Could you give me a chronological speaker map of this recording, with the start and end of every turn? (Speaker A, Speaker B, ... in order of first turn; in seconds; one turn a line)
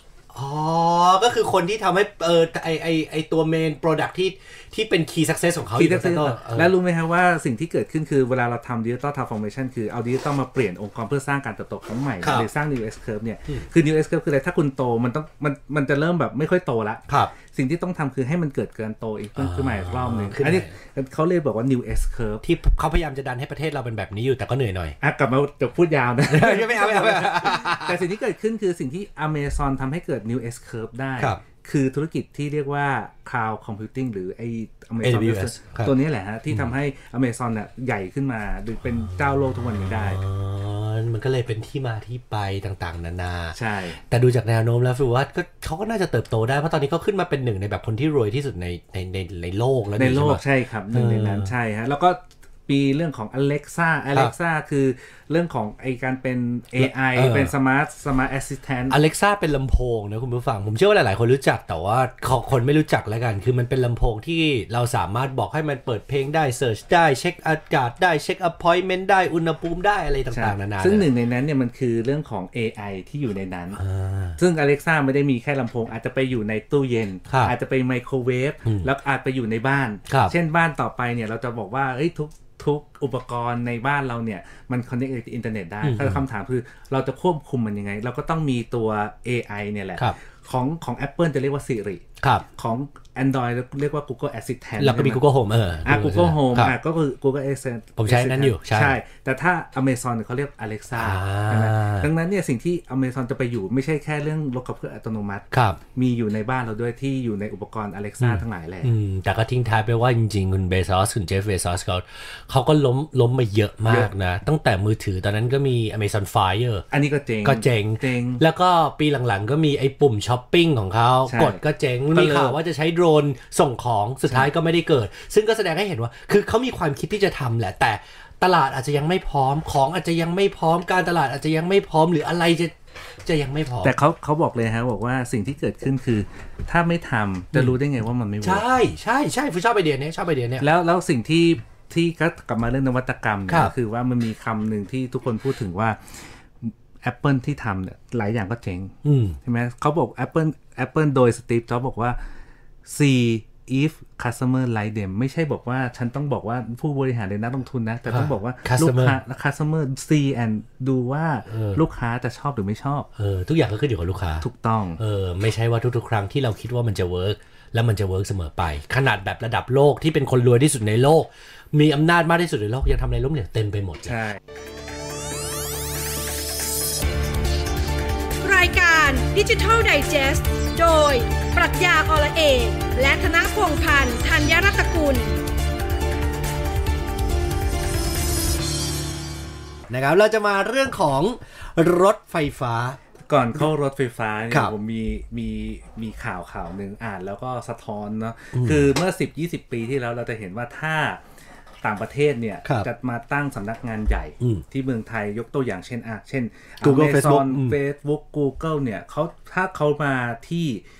Speaker A: 0.3-6.7
Speaker B: 5.8-22.4
Speaker A: 12.2-12.5
Speaker A: 19.4-20.7
Speaker A: 22.4-24.9
Speaker B: 25.0-40.2
Speaker A: 26.3-28.0
Speaker A: 35.0-35.9
Speaker A: 39.0-43.5
Speaker B: 43.5-44.0
Speaker A: 44.1-50.4
Speaker B: 50.0-59.0
Speaker A: 50.9-51.5
Speaker A: 56.8-57.5
Speaker A: 58.9-71.1
Speaker B: 70.3-73.8
Speaker A: 73.8-74.4
Speaker B: 74.4-95.2
Speaker A: 80.1-80.3
Speaker A: 85.8-86.2
Speaker A: 94.8-96.7
Speaker B: 95.8-108.9
Speaker A: 98.0-99.0
Speaker A: 101.0-102.1
Speaker A: 105.5-105.8
Speaker A: 108.2-116.8
Speaker B: 116.9-118.4
Speaker A: 117.4-133.9
Speaker B: 121.3-121.6
Speaker B: 122.1-122.6
Speaker B: 133.8-138.6
Speaker A: 138.4-140.6
Speaker B: 140.6-152.2
Speaker A: 149.0-149.4
Speaker B: 152.8-163.1
Speaker A: 158.1-159.2
Speaker A: 161.5-161.8
Speaker A: 163.2-164.4
Speaker B: 164.4-165.0
Speaker A: 165.0-174.1
Speaker B: 174.1-174.4
Speaker C: 178.4-185.4
Speaker A: 189.9-193.0
Speaker B: 193.3-201.2
Speaker A: 198.5-198.9
Speaker B: 201.8-210.8
Speaker A: 206.8-207.8